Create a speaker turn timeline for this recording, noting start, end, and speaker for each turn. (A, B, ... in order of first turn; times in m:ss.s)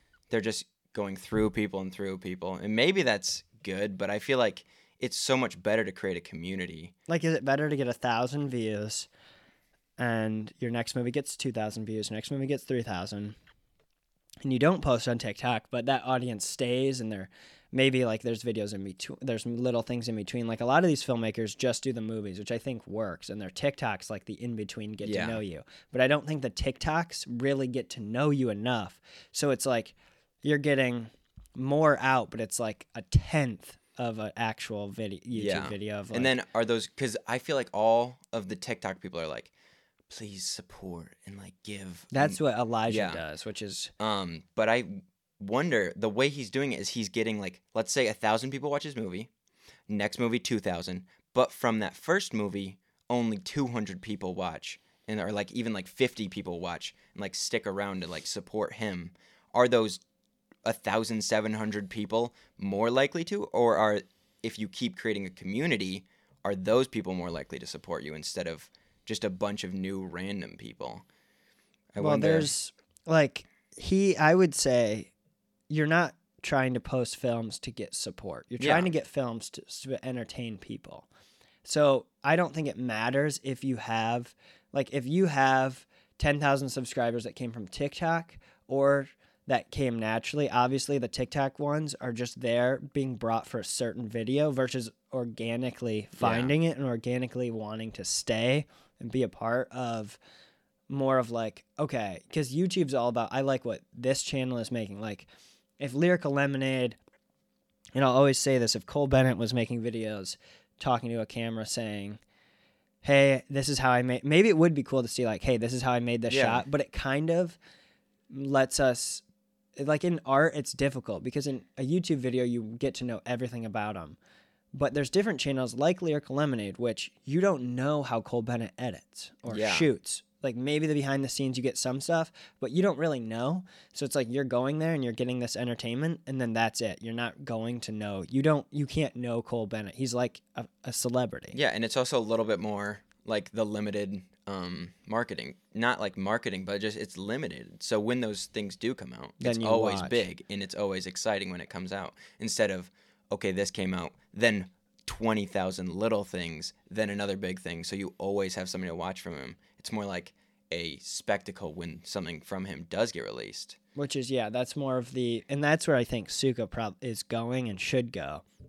0:00.3-0:06.9 A
0:07.1-0:09.1 B
0:10.0-0:13.4 B
0:14.4-0:36.3 B
0:25.0-0:25.4 A
0:35.4-0:39.5 A
0:40.1-0:43.2 A
0:42.1-0:43.9 B
0:44.0-0:49.3 A
0:49.9-1:00.0 A
1:00.6-1:11.0 A
1:11.9-1:12.5 A
1:12.0-1:15.1 B
1:15.7-1:21.1 B
1:18.6-1:18.9 A
1:21.6-1:40.2 B
1:36.2-1:36.5 A
1:40.9-1:45.3 B
1:45.8-1:47.0 B
1:47.9-1:52.2 B
1:53.0-1:57.6 B
1:56.3-1:56.6 A
1:58.3-1:59.2 B
1:59.8-2:04.2 B
2:04.7-2:21.6 B
2:09.5-2:09.9 A
2:21.5-2:43.8 A
2:29.4-2:30.2 B
2:44.0-2:48.4 B